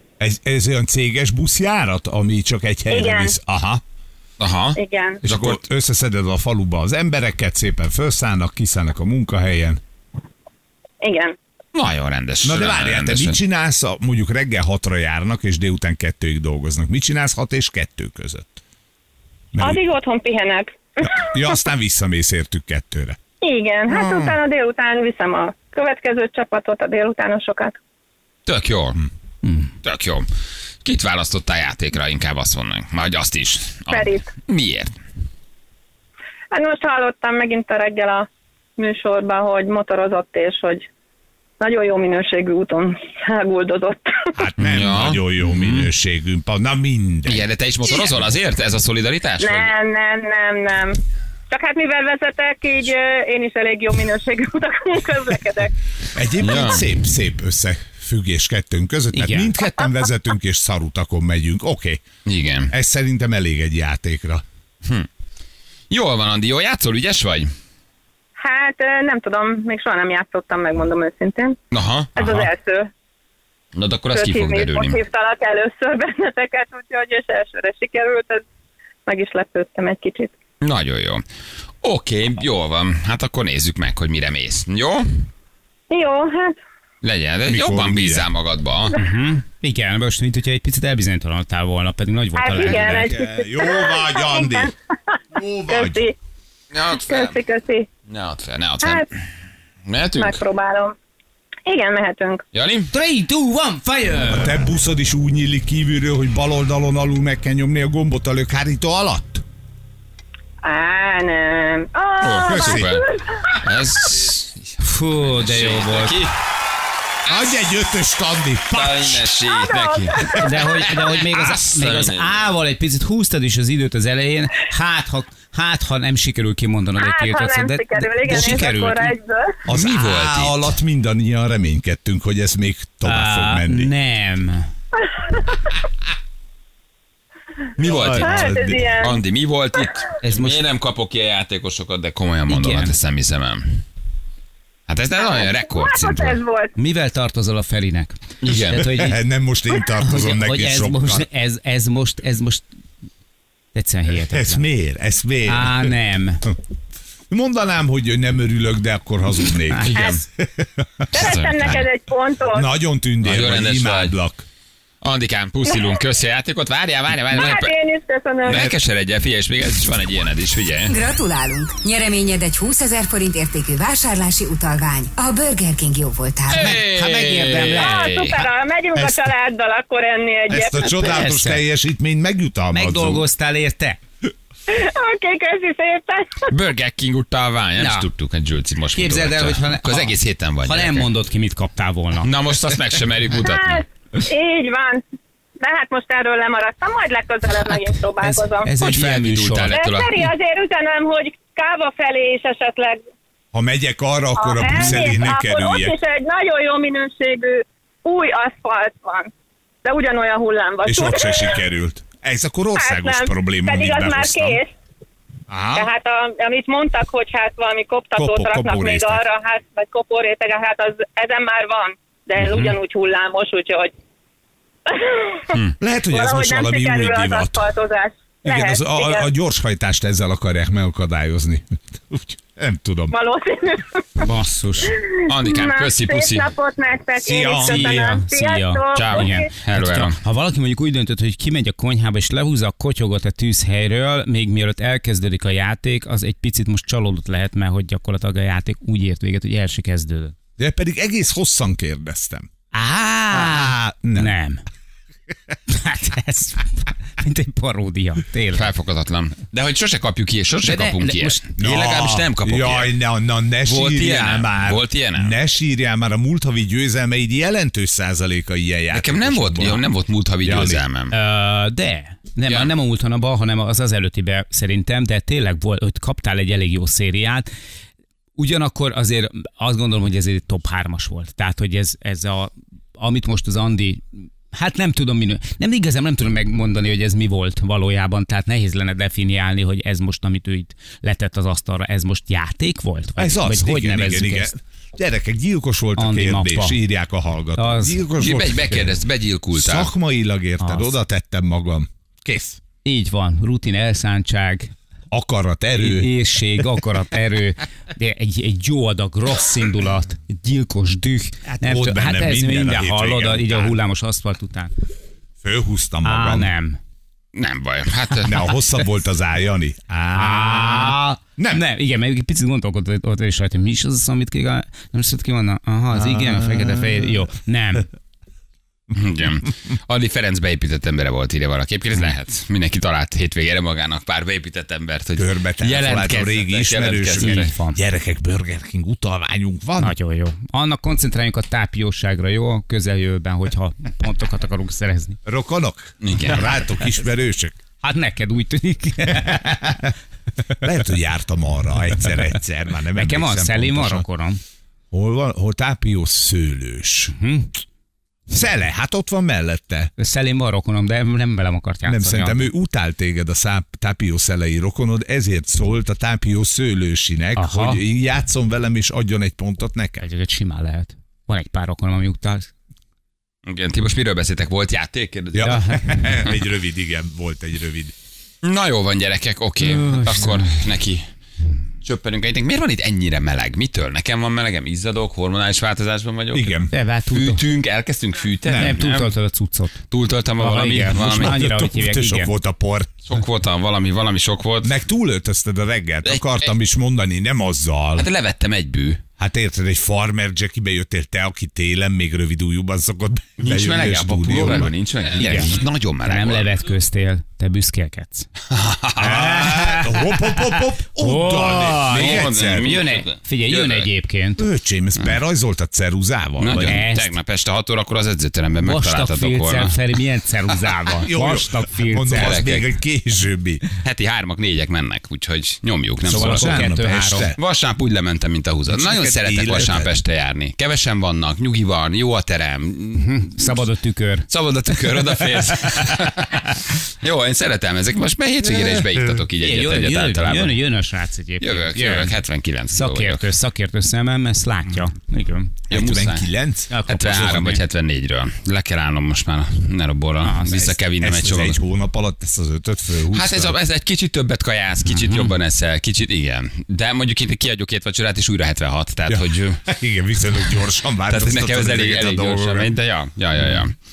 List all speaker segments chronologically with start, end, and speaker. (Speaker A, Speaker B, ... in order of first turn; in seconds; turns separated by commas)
Speaker A: 0.2-3.8, Speaker B: 2.9-3.3, Speaker C: 4.4-5.6, Speaker B: 4.8-5.2, Speaker A: 5.2-9.8, Speaker B: 11.0-11.4, Speaker C: 11.7-13.4, Speaker A: 12.4-18.6, Speaker A: 19.5-19.8, Speaker B: 19.6-21.2, Speaker A: 21.0-23.2, Speaker B: 23.4-27.8, Speaker A: 23.9-24.4, Speaker C: 28.5-29.0, Speaker D: 29.4-29.7, Speaker C: 29.8-30.3, Speaker C: 30.8-34.9, Speaker B: 33.9-34.3, Speaker B: 36.5-40.9, Speaker B: 41.6-44.4, Speaker A: 44.4-47.5, Speaker C: 44.6-45.2, Speaker C: 47.3-49.7, Speaker B: 49.4-51.0, Speaker B: 51.5-55.8, Speaker A: 56.1-62.0, Speaker C: 56.4-56.9, Speaker D: 59.1-59.5, Speaker C: 62.3-62.7, Speaker A: 62.7-64.4, Speaker C: 65.9-67.5, Speaker B: 68.4-71.6, Speaker C: 71.7-72.5, Speaker B: 72.2-72.9, Speaker C: 73.7-75.0, Speaker B: 74.1-78.4, Speaker B: 79.1-80.3, Speaker C: 80.6-81.2, Speaker C: 81.8-85.1, Speaker B: 85.9-86.5, Speaker C: 87.0-89.0, Speaker A: 87.5-88.3, Speaker D: 88.9-93.2, Speaker B: 92.4-96.2, Speaker A: 92.6-94.7, Speaker A: 95.3-96.0, Speaker C: 96.7-97.4, Speaker B: 97.1-97.9, Speaker C: 98.1-99.2, Speaker C: 99.9-100.4, Speaker B: 100.2-101.0, Speaker B: 101.7-102.5, Speaker C: 102.5-102.9, Speaker D: 102.9-104.6, Speaker A: 104.3-109.5, Speaker B: 110.6-113.6, Speaker C: 112.2-116.3, Speaker A: 112.5-112.9, Speaker D: 114.8-116.2, Speaker A: 117.3-119.3, Speaker C: 118.7-122.4, Speaker B: 119.5-120.9, Speaker D: 120.4-129.2, Speaker B: 127.0-129.6, Speaker A: 128.3-128.7, Speaker A: 129.7-133.9, Speaker C: 129.7-130.7, Speaker D: 133.0-134.7, Speaker B: 135.0-135.6, Speaker C: 137.8-143.8, Speaker A: 137.9-139.0, Speaker B: 138.1-139.2, Speaker D: 140.2-140.6, Speaker D: 142.5-142.9, Speaker C: 144.9-146.4, Speaker B: 145.2-146.7, Speaker D: 146.8-149.2, Speaker C: 148.4-148.9, Speaker A: 148.7-151.3, Speaker D: 150.0-152.7, Speaker D: 153.8-154.7, Speaker A: 154.3-156.0, Speaker D: 155.5-156.5, Speaker A: 157.3-161.3, Speaker C: 159.8-160.2, Speaker B: 161.1-162.7, Speaker C: 161.1-161.9, Speaker A: 162.5-164.5, Speaker C: 163.2-164.2, Speaker C: 165.0-167.7, Speaker B: 167.3-168.6, Speaker C: 168.4-171.0, Speaker E: 170.9-176.8, Speaker C: 176.5-178.5, Speaker D: 176.7-177.9, Speaker B: 177.6-180.9, Speaker A: 178.9-179.3, Speaker A: 180.5-183.3, Speaker D: 180.8-181.6, Speaker D: 182.7-184.0, Speaker B: 184.7-186.5, Speaker C: 186.5-191.1, Speaker D: 187.8-188.1, Speaker D: 188.9-192.3, Speaker C: 192.2-193.8, Speaker B: 193.4-195.0, Speaker B: 195.6-198.7, Speaker D: 198.2-199.8, Speaker C: 198.8-200.3, Speaker B: 199.7-203.0, Speaker A: 203.5-206.0, Speaker B: 204.4-209.3, Speaker D: 204.7-205.1, Speaker B: 209.8-211.6, Speaker A: 210.8-214.6, Speaker B: 212.8-214.7, Speaker A: 215.5-215.9, Speaker B: 215.8-223.9, Speaker A: 218.2-219.2, Speaker B: 224.9-225.6, Speaker A: 225.8-227.7, Speaker B: 226.1-229.3, Speaker A: 228.4-233.2, Speaker B: 233.1-234.3, Speaker D: 234.2-235.0, Speaker B: 234.9-239.5, Speaker C: 235.3-236.5, Speaker A: 237.2-238.2, Speaker D: 237.5-250.3, Speaker C: 238.9-240.2, Speaker A: 250.6-252.5, Speaker D: 252.7-254.6, Speaker A: 253.3-254.3, Speaker D: 255.7-258.7, Speaker C: 258.5-262.9, Speaker D: 260.6-261.4, Speaker A: 261.6-269.9, Speaker C: 263.6-265.4, Speaker C: 268.9-271.1, Speaker A: 270.4-270.8, Speaker D: 271.1-277.5, Speaker D: 278.4-294.5, Speaker A: 293.2-299.0, Speaker D: 296.0-296.8, Speaker D: 297.6-298.0, Speaker C: 298.2-299.9, Speaker A: 299.6-302.6, Speaker D: 300.6-300.9, Speaker D: 302.9-304.7, Speaker A: 305.1-306.1, Speaker D: 305.7-314.7, Speaker A: 311.5-313.8, Speaker A: 315.4-316.5, Speaker D: 316.0-316.8, Speaker C: 317.4-318.6, Speaker A: 318.2-321.6, Speaker D: 320.1-327.9, Speaker A: 325.9-327.1, Speaker C: 328.9-337.5, Speaker A: 335.2-339.9, Speaker D: 337.2-337.8, Speaker D: 339.8-345.2, Speaker A: 345.3-347.6, Speaker C: 346.0-346.5, Speaker D: 347.8-349.8, Speaker A: 349.2-349.9, Speaker A: 350.6-354.1, Speaker D: 352.9-354.4, Speaker A: 354.9-357.1, Speaker D: 357.1-357.5, Speaker A: 358.3-359.9, Speaker D: 360.0-362.5, Speaker A: 361.9-370.0, Speaker D: 367.4-367.8, Speaker D: 370.0-372.5, Speaker C: 373.5-375.7, Speaker A: 375.3-377.9, Speaker D: 375.4-376.1, Speaker C: 378.4-381.1, Speaker D: 379.6-380.6, Speaker C: 381.8-389.1, Speaker A: 386.3-386.7, Speaker D: 386.7-387.4, Speaker A: 388.4-388.8, Speaker D: 388.6-389.8, Speaker C: 389.9-391.4, Speaker D: 390.4-392.3, Speaker A: 390.9-393.0, Speaker C: 393.1-394.8, Speaker A: 394.6-398.1, Speaker C: 396.1-396.5, Speaker C: 398.0-399.0, Speaker A: 399.2-404.8, Speaker C: 403.4-406.5, Speaker D: 405.2-408.3, Speaker C: 408.5-409.2, Speaker D: 409.0-414.5, Speaker A: 409.0-412.8, Speaker C: 411.9-413.9, Speaker A: 414.4-416.8, Speaker C: 416.4-419.8, Speaker D: 416.6-417.1, Speaker D: 418.6-422.4, Speaker A: 421.0-423.6, Speaker C: 422.1-422.7, Speaker C: 423.8-426.8, Speaker A: 426.0-427.4, Speaker D: 426.1-427.3, Speaker C: 427.4-433.6, Speaker A: 428.7-429.9, Speaker D: 433.0-435.9, Speaker C: 434.3-440.6, Speaker A: 438.4-439.2, Speaker D: 439.4-442.1, Speaker C: 441.4-443.3, Speaker D: 442.7-445.6, Speaker C: 445.7-446.3, Speaker A: 445.7-447.4, Speaker D: 446.7-447.6, Speaker C: 446.9-451.6, Speaker D: 450.2-450.7, Speaker A: 450.5-453.6, Speaker C: 453.1-459.6, Speaker D: 454.9-455.3, Speaker A: 459.1-462.7, Speaker C: 461.1-463.8